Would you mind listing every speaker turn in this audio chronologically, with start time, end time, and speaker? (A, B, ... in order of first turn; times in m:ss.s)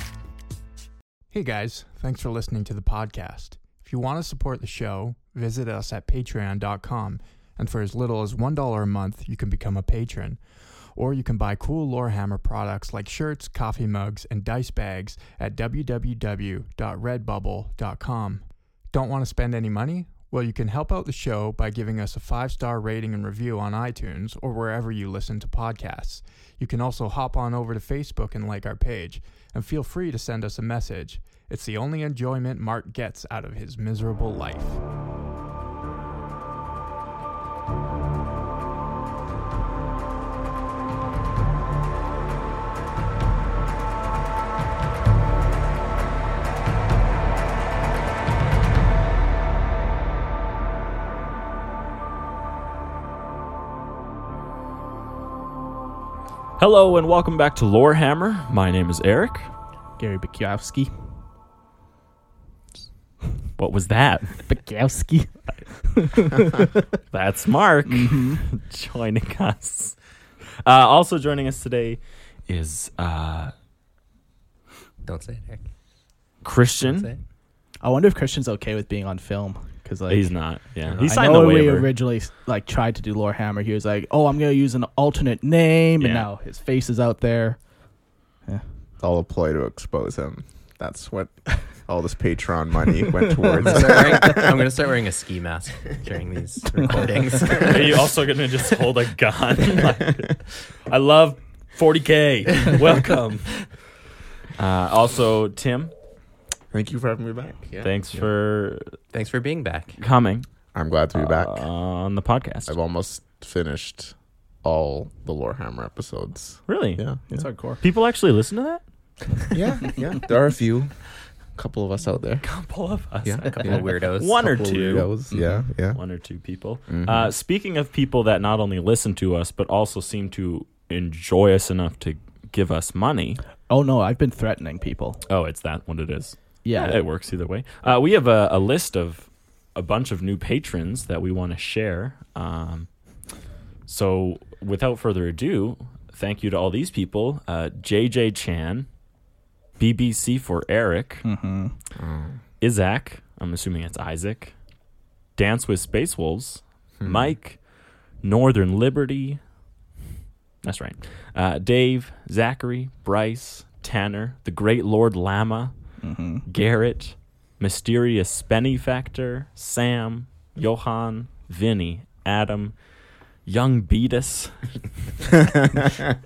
0:01.3-0:10.4 A
0:11.0-0:34.8 A
0:56.6-0:59.5 B
1:00.0-1:00.9 C
1:03.6-1:04.5 B
1:04.5-1:06.8 C
1:07.1-1:10.0 B
1:07.9-1:08.4 C
1:10.6-1:13.5 B
1:15.0-1:15.6 D
1:16.4-1:17.1 B
1:16.8-1:17.2 D
1:17.8-1:20.3 C
1:20.1-1:21.9 B
1:21.0-1:27.6 C
1:26.0-1:26.3 B
1:29.0-1:34.6 E
1:33.6-1:38.1 D
1:37.6-1:43.7 B
1:44.6-1:45.9 B
1:46.7-1:48.3 E
1:47.8-1:48.9 B
1:49.1-1:50.0 D
1:50.0-1:50.5 B
1:50.7-1:51.6 E
1:51.2-1:52.7 B
1:52.7-1:57.5 E
1:56.7-1:57.1 B
1:57.3-1:57.8 C
1:57.8-1:58.8 B
1:59.5-2:00.9 E
2:01.6-2:02.4 E
2:02.4-2:05.2 B
2:03.2-2:03.9 E
2:03.4-2:04.6 D
2:04.4-2:06.0 E
2:05.3-2:05.6 D
2:05.9-2:13.4 B
2:06.9-2:07.3 E
2:13.7-2:15.2 C
2:15.3-2:22.9 B
2:16.6-2:17.0 C
2:23.9-2:28.9 B
2:29.8-2:31.3 B
2:31.2-2:31.7 C
2:32.0-2:32.4 E
2:32.6-2:34.5 B
2:35.4-2:37.6 B
2:37.0-2:37.3 E
2:38.2-2:39.4 B
2:40.6-2:45.7 B
2:46.0-2:46.4 C
2:46.5-2:52.8 B
2:53.5-2:54.5 B
2:55.2-2:56.0 B